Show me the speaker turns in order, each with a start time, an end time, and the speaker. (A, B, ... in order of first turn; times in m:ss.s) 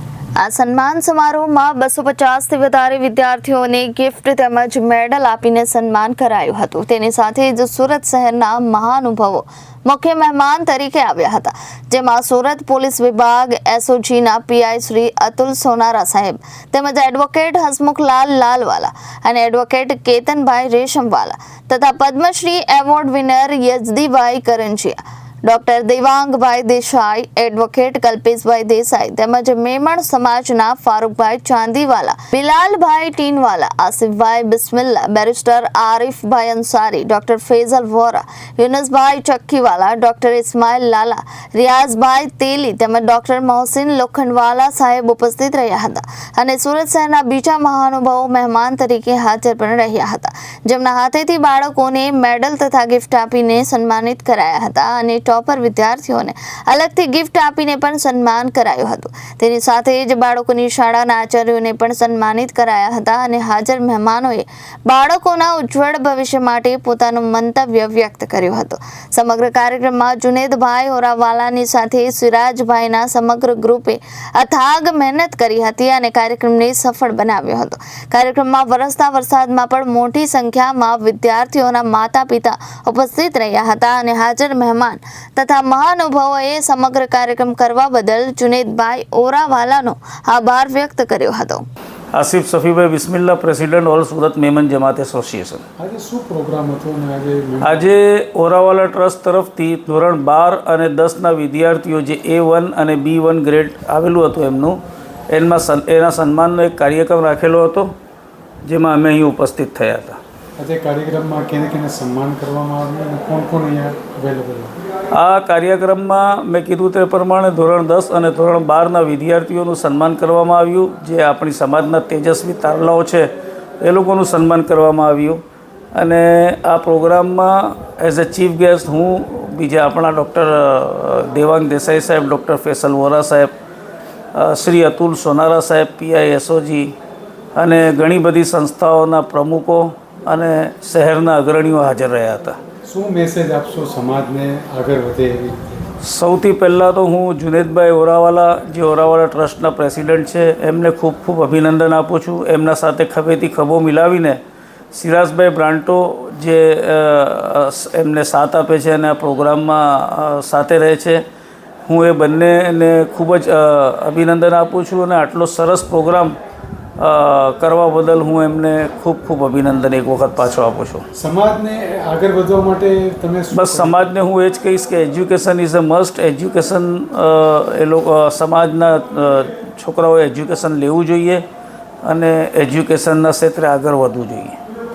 0:00.4-1:31.6 A
1:32.1-1:35.6 B
1:35.8-1:37.8 C
1:37.6-1:44.8 B
1:45.3-1:47.9 B
1:48.6-1:50.2 B
1:50.6-1:54.7 C
1:55.1-2:03.3 B
2:03.8-2:05.4 B
2:05.9-2:13.5 B
2:14.3-2:16.9 B
2:17.6-2:22.6 B
2:22.9-2:25.8 C
2:26.0-2:34.4 B
2:34.9-2:41.2 B
2:41.9-2:46.4 B
2:47.0-2:51.0 B
2:51.1-2:53.9 C
2:53.5-3:01.4 B
3:02.0-3:04.6 B